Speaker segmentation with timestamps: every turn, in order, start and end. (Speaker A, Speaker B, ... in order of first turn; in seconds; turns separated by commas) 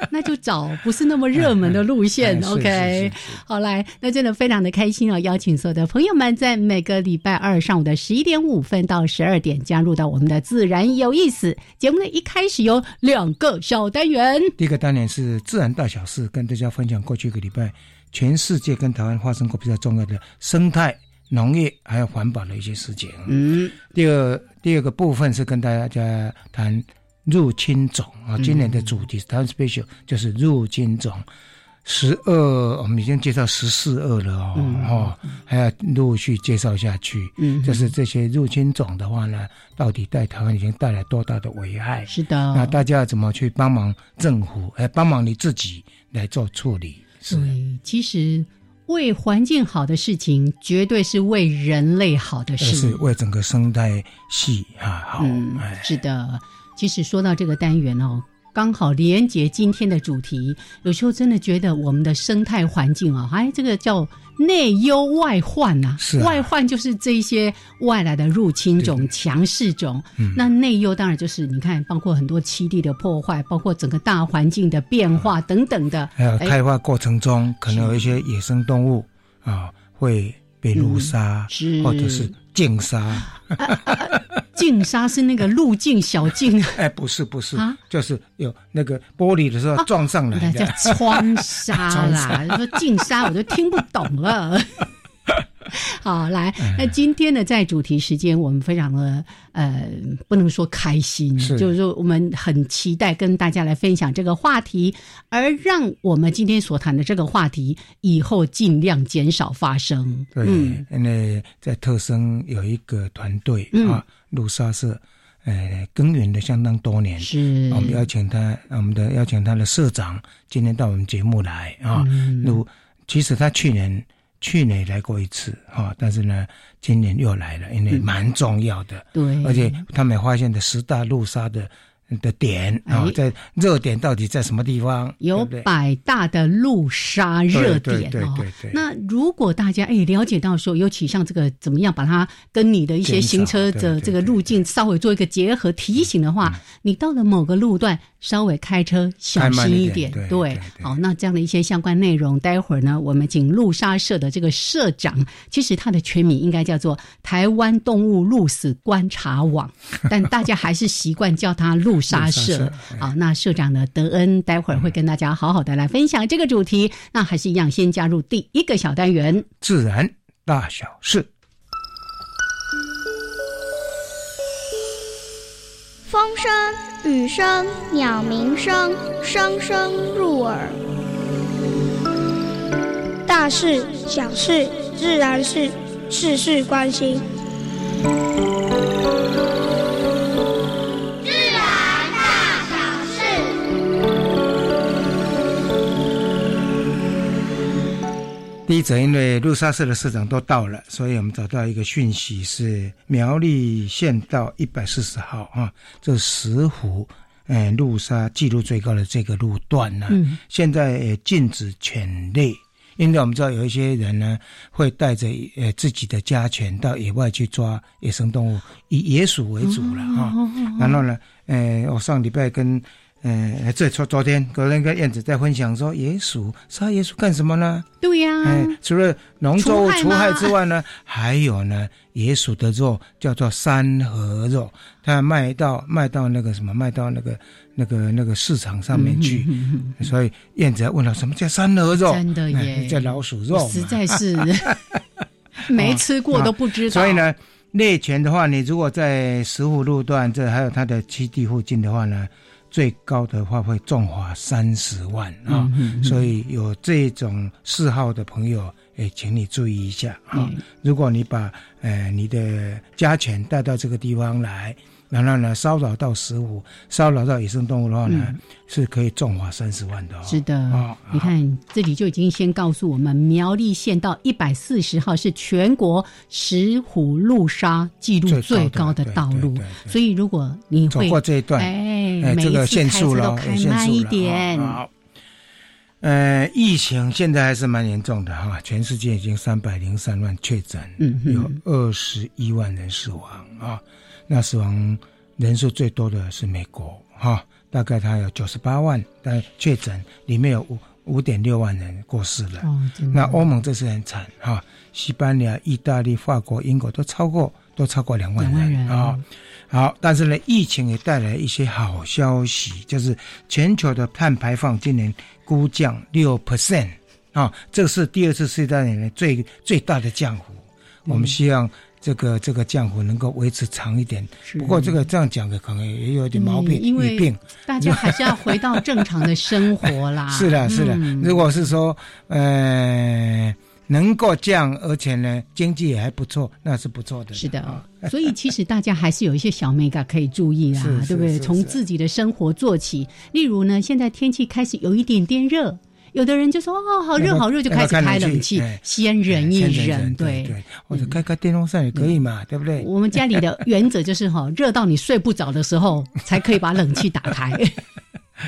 Speaker A: 0.1-14.5, Speaker B: 1.3-3.4, Speaker B: 14.6-23.3, Speaker A: 23.3-23.7, Speaker B: 23.9-31.2, Speaker A: 28.4-28.7, Speaker B: 31.8-47.5, Speaker A: 34.5-35.3, Speaker A: 37.4-37.9, Speaker A: 42.1-42.8, Speaker A: 47.3-53.0, Speaker B: 52.6-55.9, Speaker A: 55.2-76.5, Speaker B: 66.0-66.4, Speaker B: 68.8-69.1, Speaker B: 76.2-83.9, Speaker A: 77.7-78.1, Speaker A: 80.7-82.3, Speaker A: 83.5-86.8, Speaker B: 86.7-92.6, Speaker A: 89.8-94.8, Speaker A: 95.7-110.8, Speaker B: 96.6-96.9, Speaker B: 101.4-101.7, Speaker B: 110.3-135.7, Speaker A: 113.7-114.0, Speaker A: 117.2-118.0, Speaker A: 122.0-122.6, Speaker A: 129.1-129.8, Speaker A: 132.8-133.2, Speaker A: 135.2-169.5, Speaker B: 137.5-138.8, Speaker B: 143.0-144.4, Speaker B: 149.3-150.9, Speaker B: 162.1-163.0, Speaker B: 169.6-171.3, Speaker C: 176.1-180.8, Speaker C: 183.2-187.2, Speaker C: 192.3-193.3, Speaker B: 198.7-227.9, Speaker A: 210.1-210.4, Speaker A: 219.6-221.0, Speaker A: 228.0-228.8, Speaker B: 228.4-245.0, Speaker A: 229.6-230.5, Speaker A: 238.9-240.1, Speaker A: 242.0-244.7, Speaker A: 245.7-247.2, Speaker B: 245.7-271.3, Speaker A: 255.5-256.3, Speaker A: 260.3-260.6, Speaker A: 268.1-268.4, Speaker A: 270.2-284.8, Speaker B: 278.3-280.0, Speaker B: 280.9-284.9, Speaker B: 286.0-338.3, Speaker A: 291.0-291.6, Speaker A: 302.6-303.4, Speaker A: 308.4-309.2, Speaker A: 321.1-321.3, Speaker A: 324.4-325.0, Speaker A: 326.3-331.5, Speaker A: 337.4-351.1, Speaker B: 340.7-341.8, Speaker B: 347.2-353.4, Speaker A: 352.8-357.8